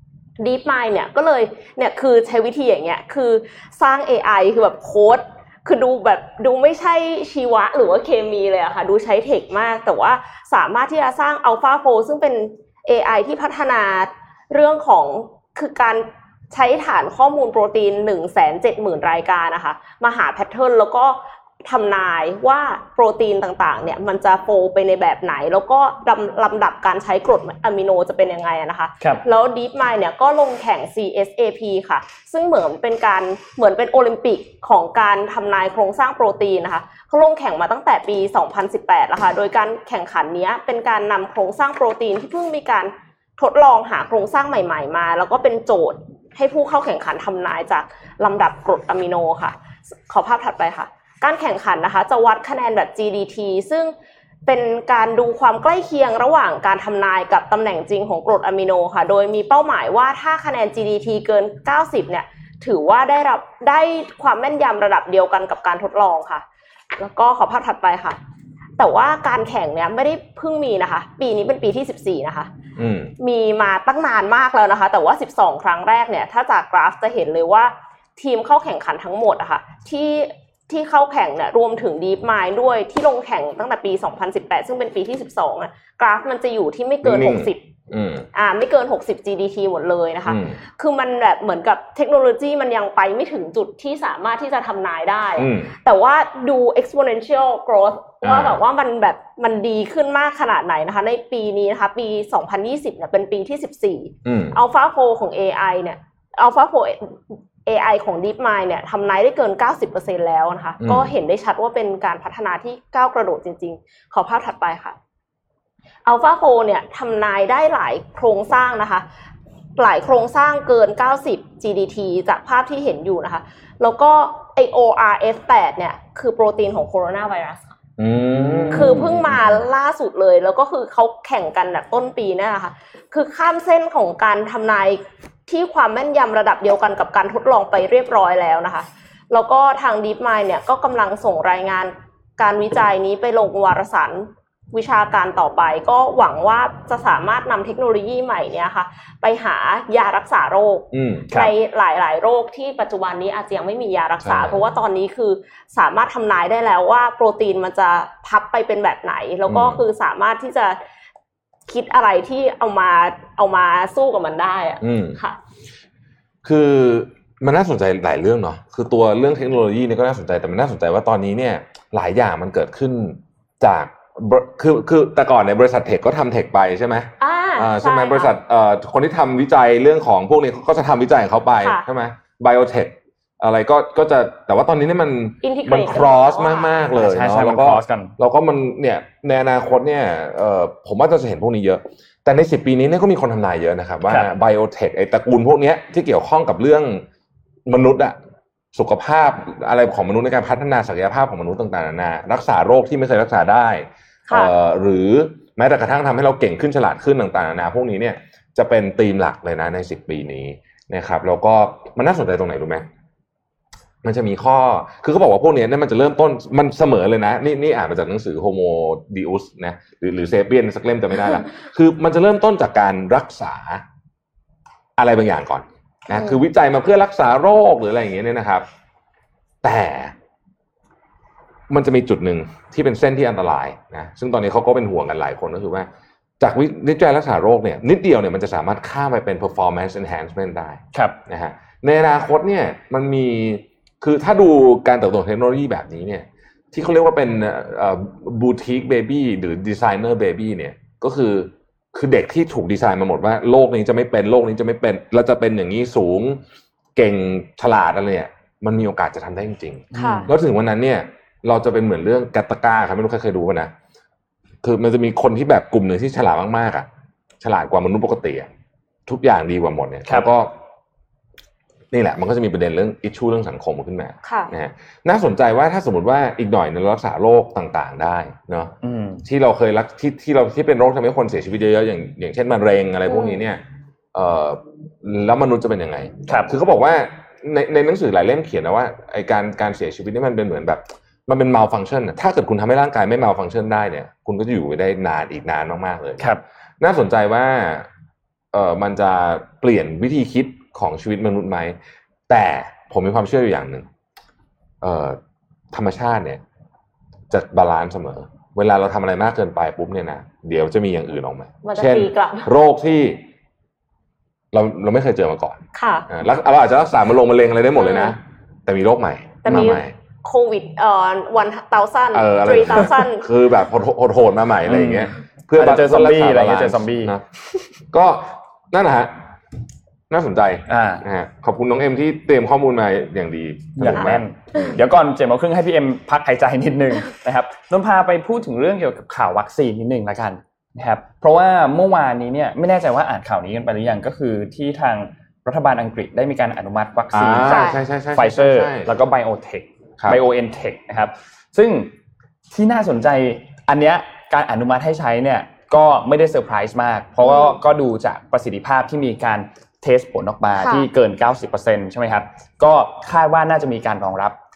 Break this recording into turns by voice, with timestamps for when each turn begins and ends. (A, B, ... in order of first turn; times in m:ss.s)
0:00.4-0:49.6 A
0:50.1-0:53.9 A
0:54.4-1:06.4 A
1:06.9-1:08.2 A
1:08.8-1:12.5 A
1:12.8-1:13.1 B
1:13.2-1:27.6 A
1:27.0-1:28.3 B
1:28.3-1:55.0 A
1:30.3-1:30.6 B
1:35.4-1:35.8 B
1:38.2-1:38.6 B
1:44.2-1:44.6 B
1:50.8-1:51.1 B
1:56.0-1:59.0 A
1:59.8-2:07.8 A
2:08.0-2:09.6 B
2:08.5-2:09.0 C
2:08.7-2:40.8 A
2:30.9-2:31.3 B
2:34.2-2:34.6 B
2:39.5-2:39.8 B
2:41.7-2:45.4 A
2:44.8-2:45.2 B
2:46.4-3:17.0 B
2:57.2-2:58.3 A
3:05.4-3:06.7 A
3:06.9-3:08.1 C
3:17.6-3:18.2 B
3:18.7-3:32.9 B
3:34.0-3:43.8 B
3:45.0-3:48.6 B
3:46.1-3:46.4 A
3:49.6-3:50.1 B
3:51.7-3:55.9 B
3:56.4-4:16.4 B
4:17.0-4:23.7 B
4:19.9-4:20.3 C
4:19.9-4:20.3 A
4:24.6-4:26.9 B
4:27.4-4:28.5 B
4:29.1-4:30.6 B
4:31.9-4:43.6 B
4:34.2-4:34.5 A
4:38.8-4:39.2 C
4:43.1-4:43.4 A
4:44.1-4:56.2 B
4:46.3-4:46.5 C
4:56.8-4:57.9 B
4:58.5-5:01.8 B
5:02.3-5:03.9 B
5:04.8-5:05.2 B
5:05.7-5:06.4 B
5:07.3-5:13.2 B
5:11.6-5:12.5 A
5:14.5-5:19.9 B
5:15.8-5:16.1 A
5:17.8-5:18.1 A
5:19.4-5:23.3 A
5:22.1-5:29.2 B
5:24.6-5:27.1 C
5:30.1-5:34.8 B
5:30.7-5:31.0 C
5:33.8-5:51.9 C
5:47.1-5:48.9 B
5:47.4-5:47.8 A
5:52.5-6:04.4 C
5:57.2-5:57.6 A
6:00.6-6:00.9 A